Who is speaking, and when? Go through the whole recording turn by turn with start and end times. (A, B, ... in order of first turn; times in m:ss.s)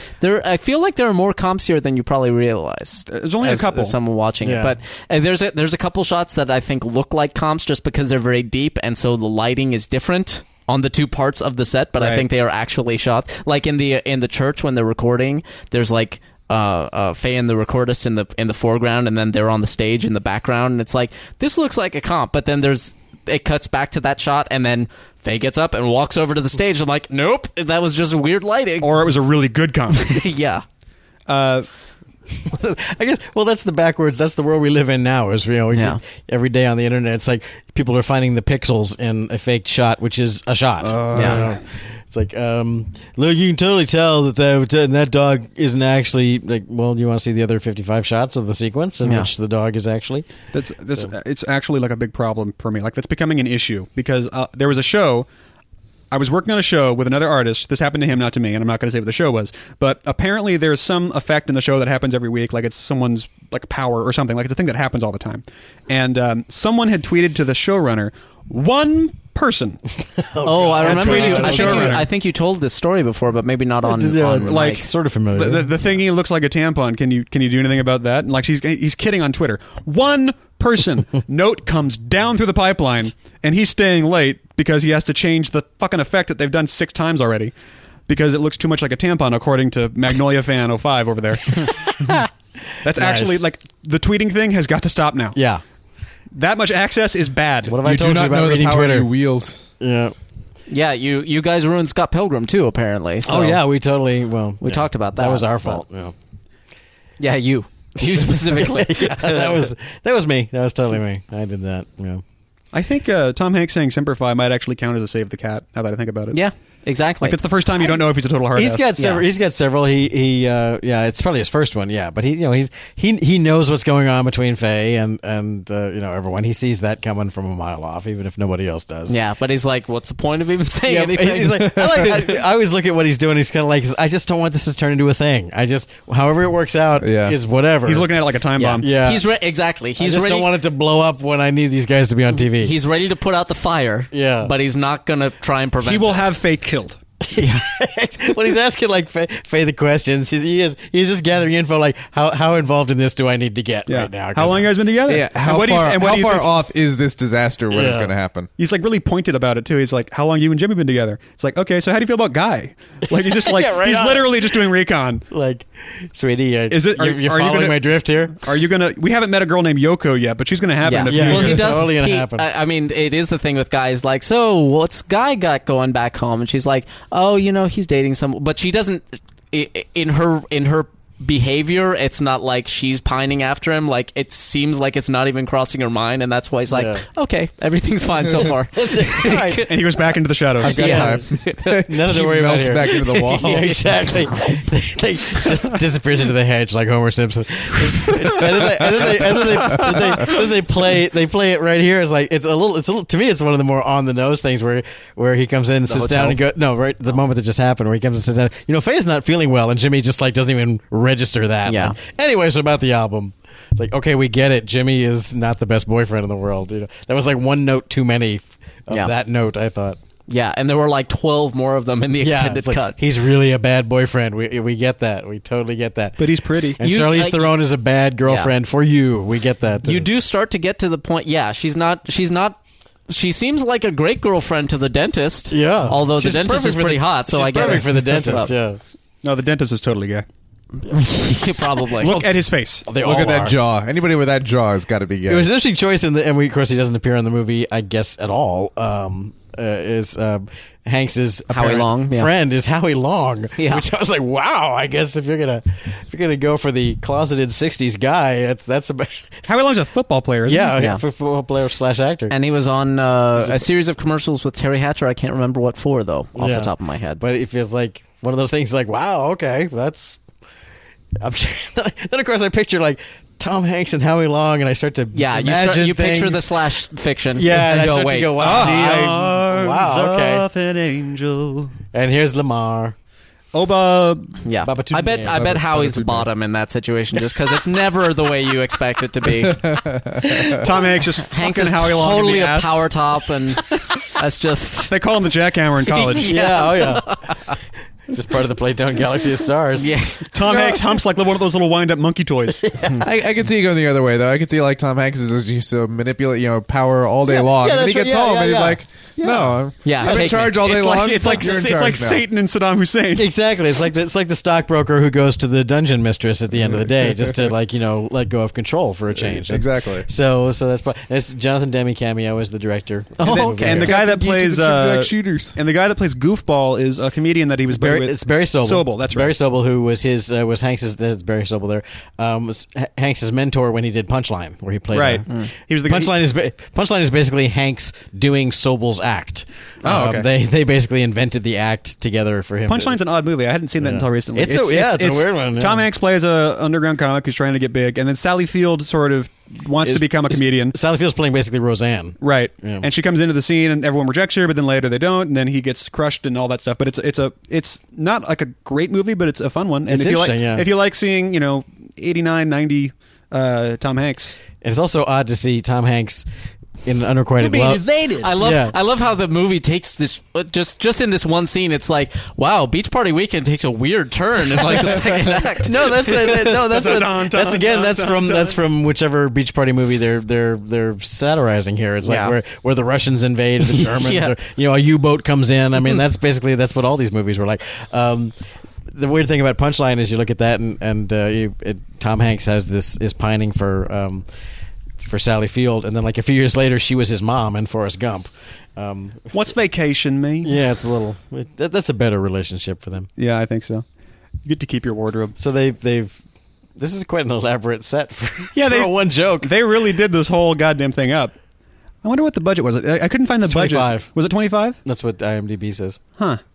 0:00.2-0:29.1 A
0:03.1-0:04.0 B
0:04.4-0:04.7 C
0:12.0-0:12.3 B
0:28.8-0:30.2 B
0:29.9-0:30.6 A
0:31.3-0:31.7 B
0:32.4-0:50.3 C
0:35.7-0:36.0 A
0:40.8-0:41.6 B
0:41.1-0:41.4 A
0:49.0-0:49.3 A
0:50.5-0:55.3 B
0:56.1-1:09.8 B
1:10.2-1:12.0 C
1:10.4-1:14.9 A
1:10.8-1:12.1 B
1:13.8-1:15.7 C
1:14.5-1:27.5 B
1:28.1-1:31.8 B
1:31.8-1:32.3 C
1:32.8-1:35.4 B
1:33.0-1:33.4 C
1:35.3-1:35.6 C
1:36.3-1:37.8 B
1:37.6-1:39.1 C
1:37.8-1:39.6 D
1:39.8-1:40.1 C
1:40.7-1:43.6 A
1:43.2-1:46.1 C
1:44.6-1:45.8 A
1:47.2-1:49.7 A
1:48.0-1:52.2 C
1:52.7-1:56.4 B
1:56.3-1:57.4 A
1:57.2-1:58.9 B
1:58.6-2:09.2 C
1:59.0-1:59.2 A
2:09.1-2:12.4 A
2:10.9-2:18.1 C
2:11.7-2:12.1 D
2:17.0-2:17.4 D
2:17.8-2:18.9 B
2:18.6-2:20.5 A
2:18.8-2:19.2 C
2:20.0-2:22.8 C
2:22.4-2:26.3 A
2:24.1-2:24.5 C
2:25.8-2:27.0 B
2:27.2-2:34.7 C
2:33.9-2:36.5 B
2:35.1-2:38.5 D
2:37.7-2:38.1 C
2:38.6-2:45.2 B
2:43.3-2:44.6 C
2:45.3-2:48.4 C
2:46.7-2:51.9 B
2:50.8-3:10.0 A
2:51.0-2:52.4 C
3:06.7-3:07.0 C
3:08.4-3:09.7 C
3:09.6-3:10.8 B
3:10.6-3:13.7 D
3:10.6-3:11.8 A
3:10.8-3:11.2 C
3:11.8-3:40.0 C
3:12.9-3:13.9 A
3:18.6-3:19.0 D
3:19.6-3:20.0 D
3:25.9-3:26.4 A
3:31.7-3:32.0 A
3:40.3-3:43.0 A
3:42.2-3:50.1 C
3:46.2-3:46.8 B
3:46.8-3:47.5 A
3:48.2-3:48.5 A
3:49.8-3:58.5 A
3:55.5-3:58.8 C
3:59.2-4:00.2 B
4:00.9-4:02.2 A
4:01.8-4:02.3 C
4:02.0-4:02.9 B
4:02.8-4:03.6 C
4:03.0-4:05.5 D
4:05.3-4:19.5 C
4:11.5-4:12.3 A
4:13.6-4:13.8 A
4:19.5-4:20.8 B
4:20.5-4:22.4 C
4:20.8-4:21.0 A
4:22.3-4:27.2 A
4:26.4-4:30.2 C
4:31.2-4:36.6 C
4:35.1-4:38.8 A
4:37.4-4:40.5 C
4:38.4-4:41.8 B
4:41.9-4:43.0 C
4:43.5-4:44.4 B
4:44.4-4:55.0 A
4:44.6-4:45.5 C
4:45.3-4:46.3 D
4:49.4-4:50.7 D
4:50.5-4:52.9 B
4:54.9-4:56.3 B
4:55.8-4:57.6 A
4:56.2-4:57.2 C
4:58.1-4:59.9 C
4:59.8-5:00.7 A
5:00.3-5:03.0 B
5:00.5-5:00.8 C
5:02.7-5:03.0 C
5:03.0-5:12.3 D
5:07.3-5:09.6 C
5:09.8-5:11.9 A
5:10.0-5:13.3 B
5:13.2-5:23.9 C
5:17.0-5:17.5 D
5:19.2-5:20.1 D
5:23.2-5:24.0 A
5:23.2-5:29.4 B
5:23.7-5:25.6 D
5:27.7-5:43.0 C
5:34.9-5:36.2 B
5:39.8-5:40.3 B
5:42.7-5:50.8 B
5:43.8-5:45.9 C
5:49.8-5:52.9 C
5:52.2-6:04.4 B
5:59.9-6:00.7 C
6:04.6-6:06.3 C
6:06.8-6:07.8 C
6:07.4-6:08.3 B
6:08.2-6:16.4 A
6:08.4-6:08.8 C
6:14.8-6:15.0 C
6:15.6-6:28.3 C
6:16.5-6:18.6 B
6:22.0-6:22.4 A
6:23.6-6:24.3 A
6:28.9-6:34.3 C
6:35.0-6:39.3 C
6:39.3-6:40.6 B
6:40.4-6:43.1 C
6:43.2-6:43.8 B
6:44.4-6:45.4 B
6:45.4-6:46.2 C
6:46.8-6:49.5 C
6:48.5-6:51.4 B
6:52.0-6:54.8 B
6:53.4-6:54.1 C
6:54.8-6:56.0 C